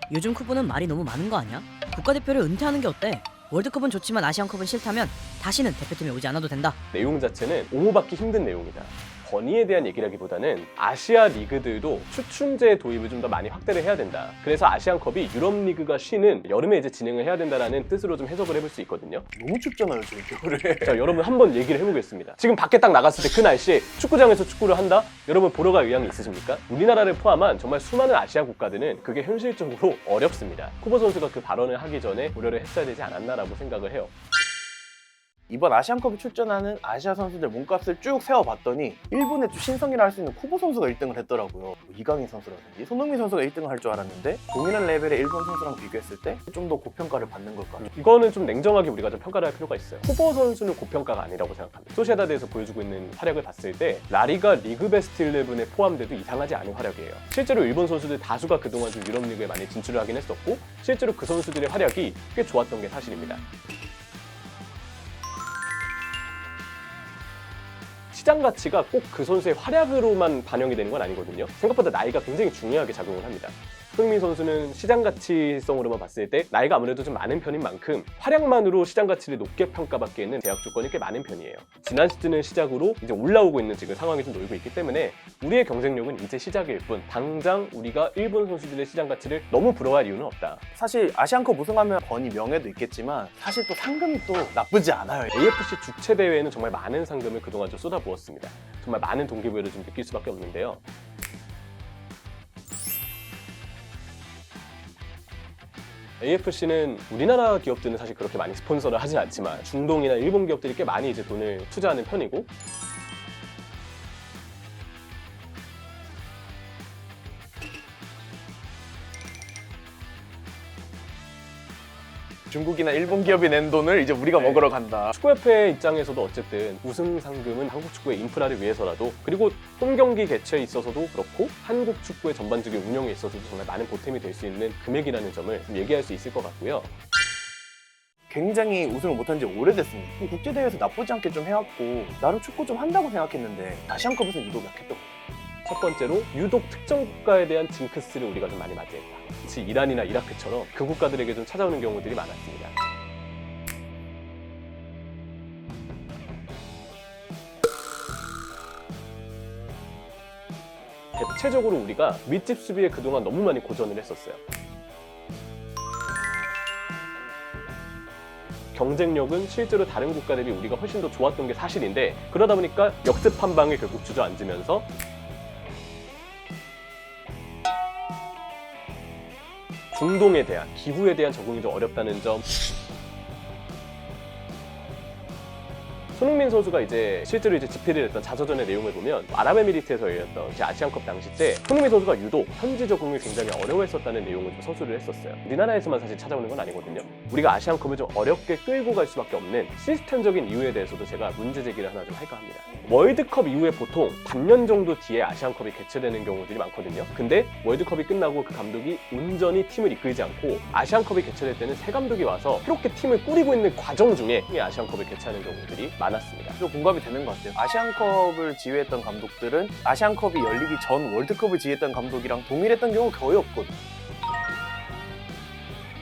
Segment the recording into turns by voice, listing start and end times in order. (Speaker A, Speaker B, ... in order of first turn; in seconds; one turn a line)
Speaker A: 0.1-6.8
Speaker B: 6.9-19.3
Speaker C: 19.4-21.2
Speaker B: 20.8-34.1
Speaker C: 35.5-47.9
Speaker B: 47.8-63.4
Speaker B: 68.1-90.6
Speaker C: 90.8-95.3
Speaker B: 95.3-100.8
Speaker B: 106.2-112.5
Speaker C: 122.5-125.1
Speaker B: 124.3-136.9
Speaker C: 138.3-145.1
Speaker B: 145.7-152.8
Speaker B: 161.1-164.4
Speaker B: 168.7-174.9
Speaker B: 179.9-182.4
Speaker B: 186.1-216.6
Speaker C: 216.6-223.8